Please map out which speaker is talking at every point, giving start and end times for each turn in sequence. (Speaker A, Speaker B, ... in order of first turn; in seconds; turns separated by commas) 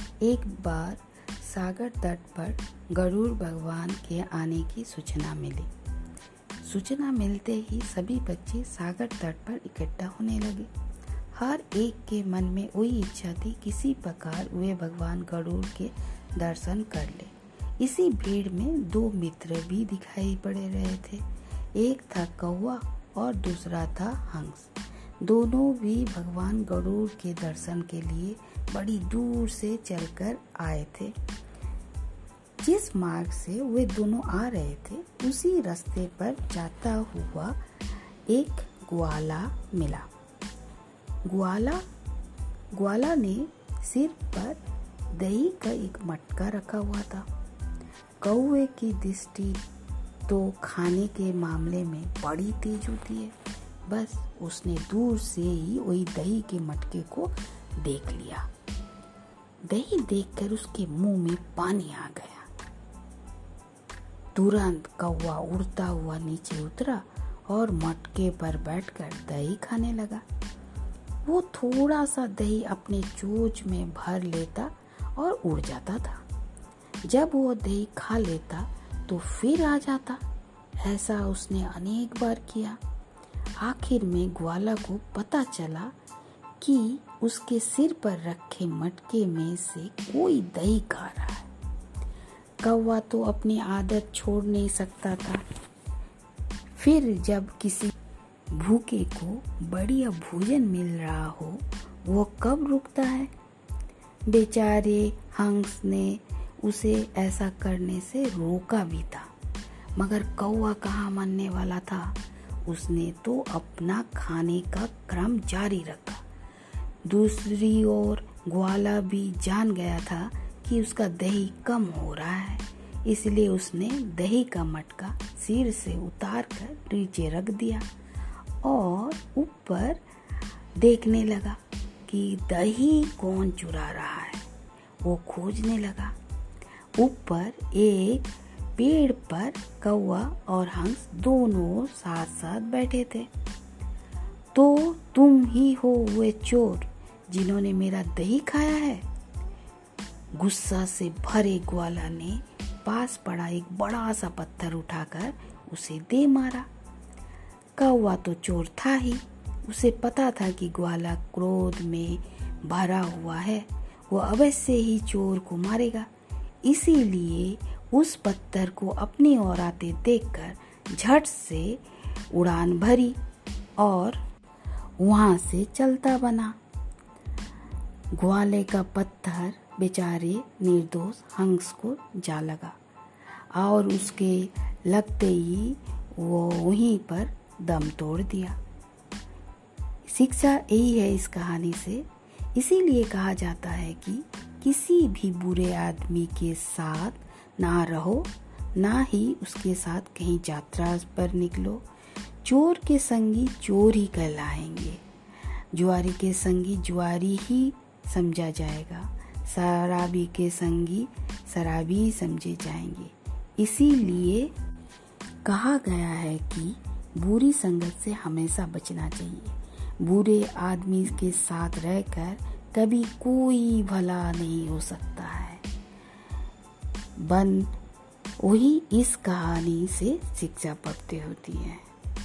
Speaker A: 0.2-5.7, Speaker A: 6.6-10.7, Speaker A: 11.3-31.2, Speaker A: 32.6-37.6, Speaker A: 38.3-40.1, Speaker A: 41.3-41.8, Speaker A: 42.8-47.3, Speaker A: 48.2-49.6, Speaker A: 50.3-53.4, Speaker A: 53.9-58.5, Speaker A: 59.7-62.5, Speaker A: 64.3-70.2, Speaker A: 71.3-76.2, Speaker A: 77.0-80.2, Speaker A: 80.8-82.8, Speaker A: 83.6-85.9, Speaker A: 86.6-91.5, Speaker A: 92.6-95.4, Speaker A: 96.8-97.9, Speaker A: 98.5-103.3, Speaker A: 104.3-109.3, Speaker A: 110.0-116.2, Speaker A: 117.1-127.9, Speaker A: 128.6-130.0, Speaker A: 130.8-134.5, Speaker A: 135.0-136.2, Speaker A: 137.0-143.3, Speaker A: 144.5-149.0, Speaker A: 150.3-156.7, Speaker A: 157.8-166.1, Speaker A: 166.7-173.2, Speaker A: 173.8-174.2, Speaker A: 175.0-176.6, Speaker A: 178.1-182.8, Speaker A: 183.5-188.6, Speaker A: 190.1-201.8, Speaker A: 202.4-205.0, Speaker A: 205.7-214.5, Speaker A: 215.4-225.6, Speaker A: 227.2-227.8, Speaker A: 228.4-231.8